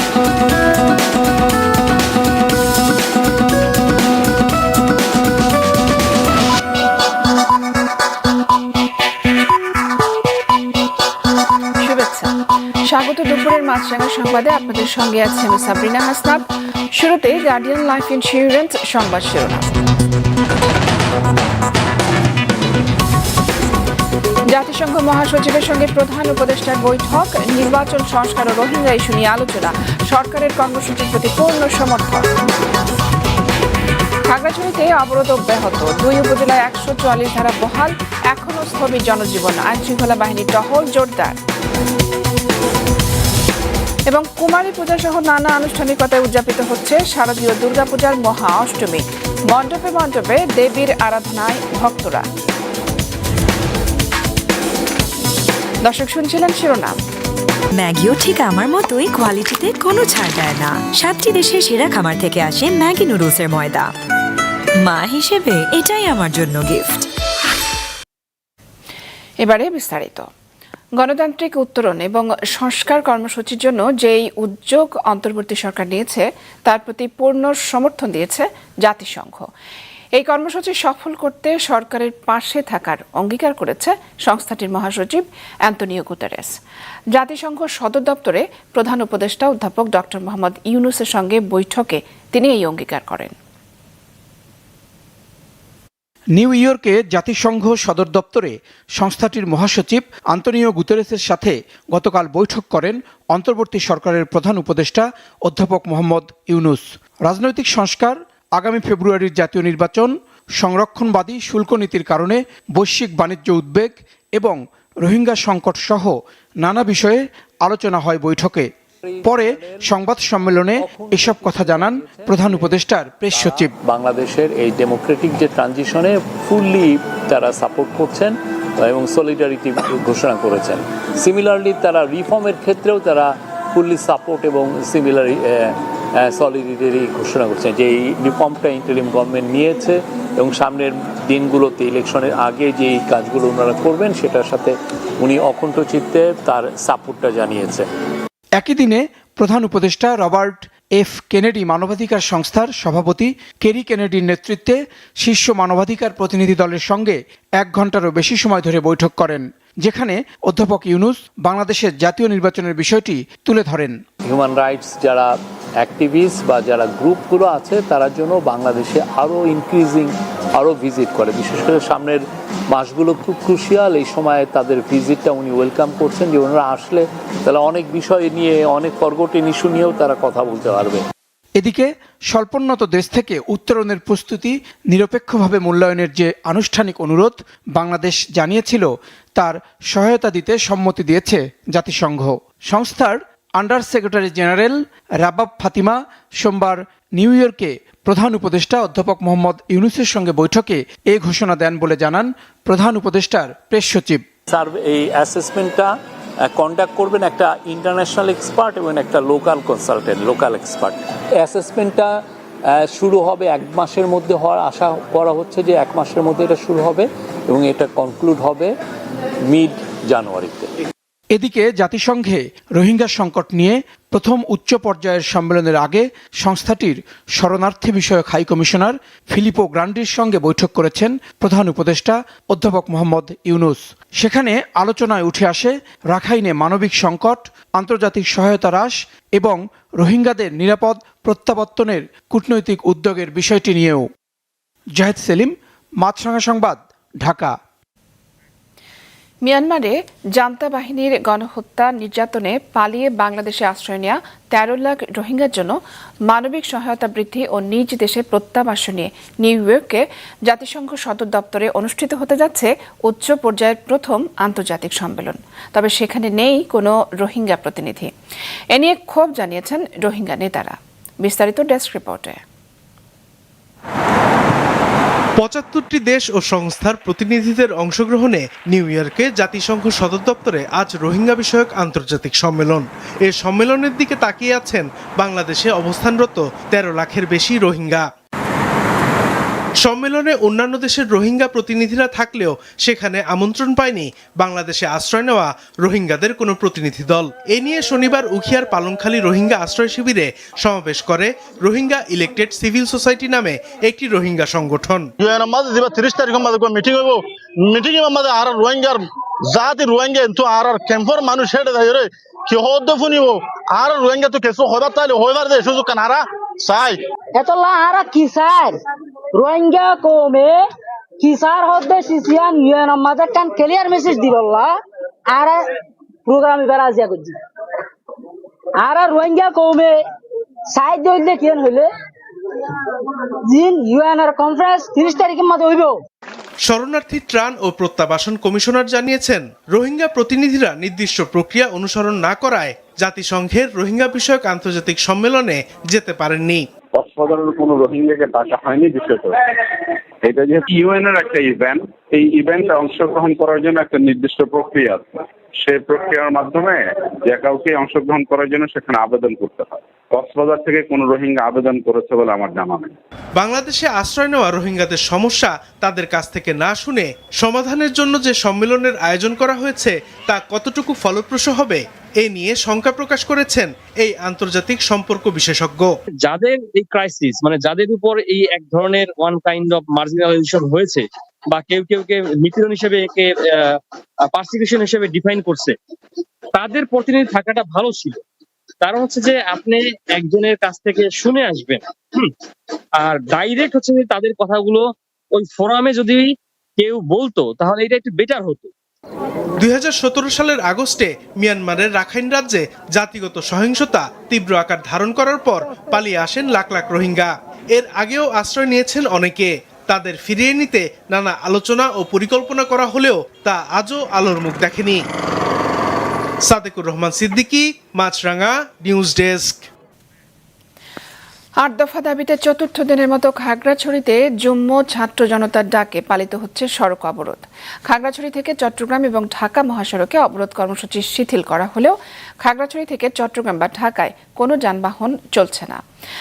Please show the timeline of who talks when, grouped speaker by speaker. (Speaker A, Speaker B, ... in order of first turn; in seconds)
Speaker A: 11.8-12.3, 12.9-19.8, 24.5-32.3, 34.2-41.4, 44.1-52.3, 55.8-57.0, 69.4-70.2, 71.0-79.5, 80.2-86.6, 87.1-93.3, 249.4-268.1, 268.7-272.4, 421.6-435.8
Speaker B: 57.7-63.9, 64.8-67.1
Speaker C: 96.4-118.7, 119.2-123.7, 148.6-164.0, 181.6-204.2, 221.3-244.1, 245.0-247.6
Speaker D: 119.1-119.8, 120.8-122.7, 123.3-147.9, 164.2-181.0, 204.5-205.9, 206.5-218.7, 219.5-220.7
Speaker E: 275.4-288.1, 289.8-305.1, 336.7-346.6, 363.4-375.9, 399.6-415.0, 416.5-419.7
Speaker F: 305.2-317.0
Speaker G: 317.4-318.8, 319.3-320.6, 321.2-324.8, 325.3-325.6, 326.3-327.3, 328.8-330.0, 330.7-331.9, 333.4-336.0
Speaker H: 346.9-349.4, 350.2-362.9
Speaker I: 376.2-385.8, 386.5-388.2, 388.8-392.3, 393.0-398.7